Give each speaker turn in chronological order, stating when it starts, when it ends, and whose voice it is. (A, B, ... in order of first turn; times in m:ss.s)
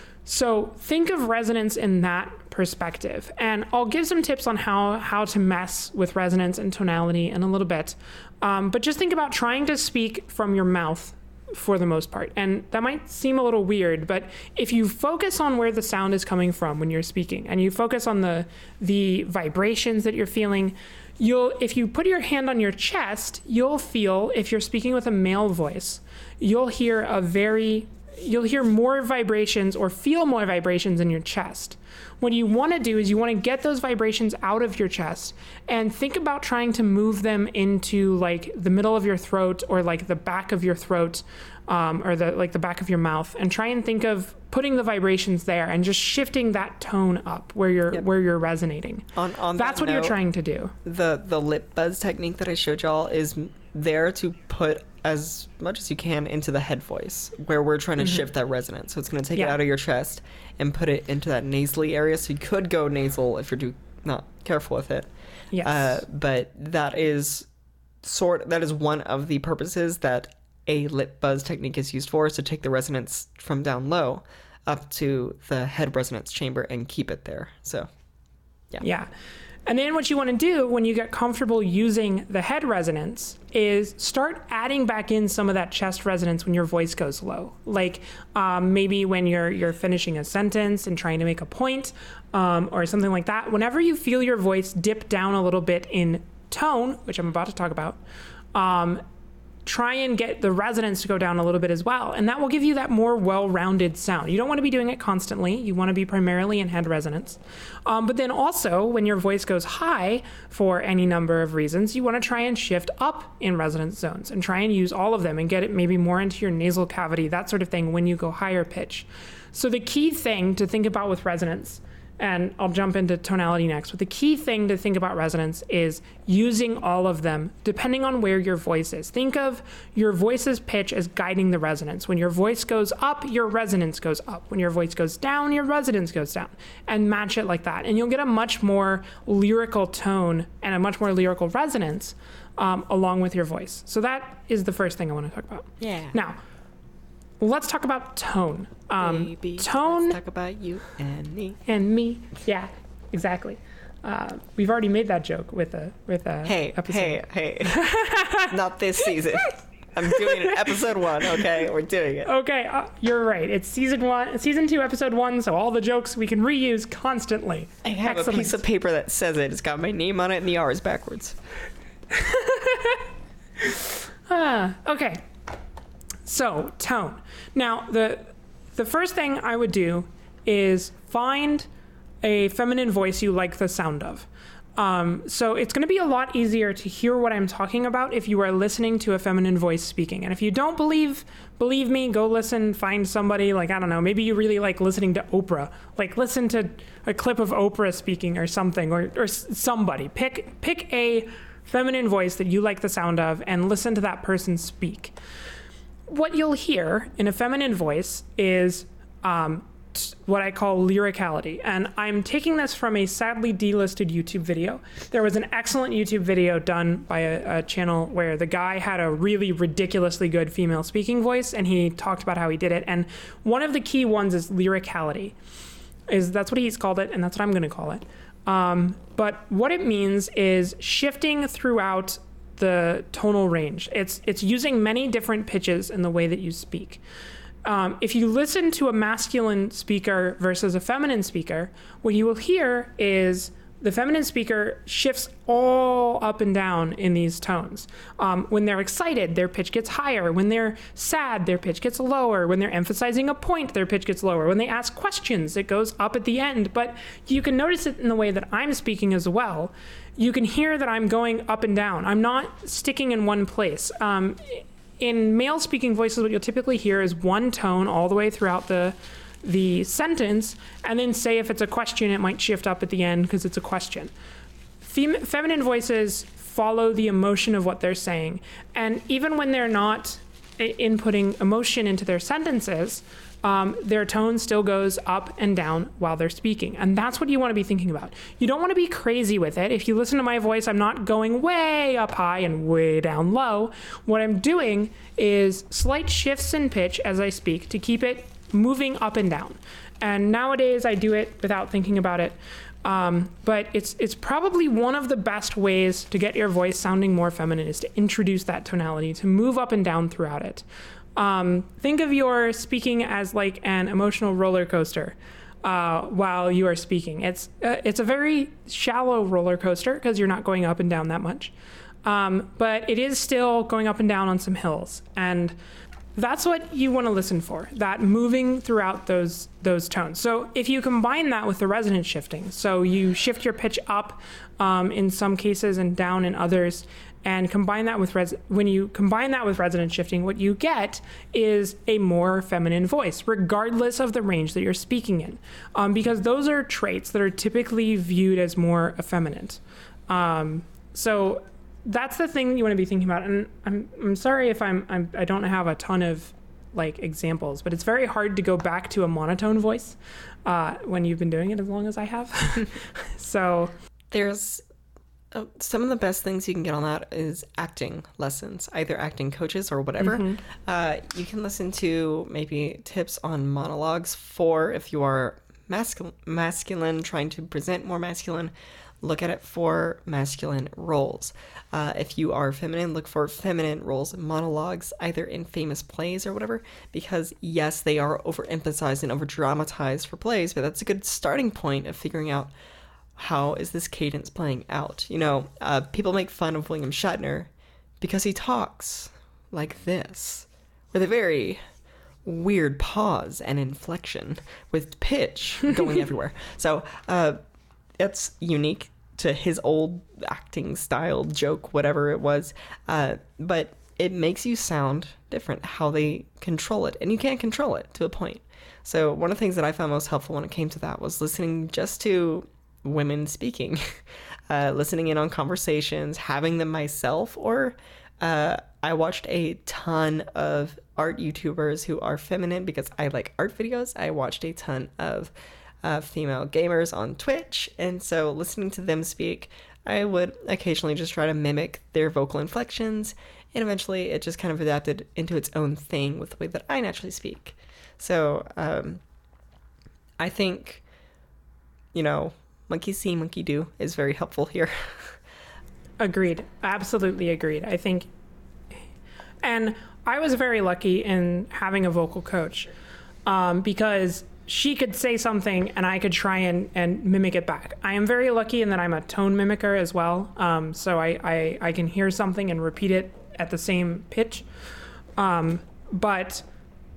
0:00.2-0:50.7 A
0:49.1-0:50.2 B
0:50.8-1:05.1 B
1:05.5-1:06.0 A
1:05.6-1:07.5 B
1:08.0-1:17.9 B
1:18.8-1:19.1 A
1:19.7-1:38.0 A
1:38.5-1:39.0 A
1:39.6-2:26.4 A
2:25.8-2:26.1 B
2:27.4-2:30.2 A
2:29.0-2:31.6 B
2:31.6-2:38.5 A
2:36.4-2:42.3 B
2:40.1-2:40.6 A
2:42.2-2:48.6 A
2:47.8-2:51.4 B
2:52.1-2:53.0 A
2:53.6-2:55.2 A
2:56.2-3:01.7 A
3:02.2-3:25.1 A
3:26.1-3:45.3 A
3:46.1-3:57.0 A
3:57.6-4:34.1 A
4:34.8-5:10.6 A
5:11.2-5:21.5 A
5:22.0-5:25.6 A
5:26.1-6:03.7 A
6:04.1-6:04.6 B
6:05.3-6:32.5 B
6:10.0-6:10.4 A
6:33.2-6:37.5 B
6:38.0-6:41.6 B
6:42.2-6:47.4 B
6:48.0-7:15.3 B
7:15.8-7:29.0 B
7:30.2-7:30.8 B
7:31.9-7:35.2 B
7:36.0-7:38.1 A
7:39.4-7:42.7 A
7:43.2-7:54.4 A
7:55.2-7:56.4 A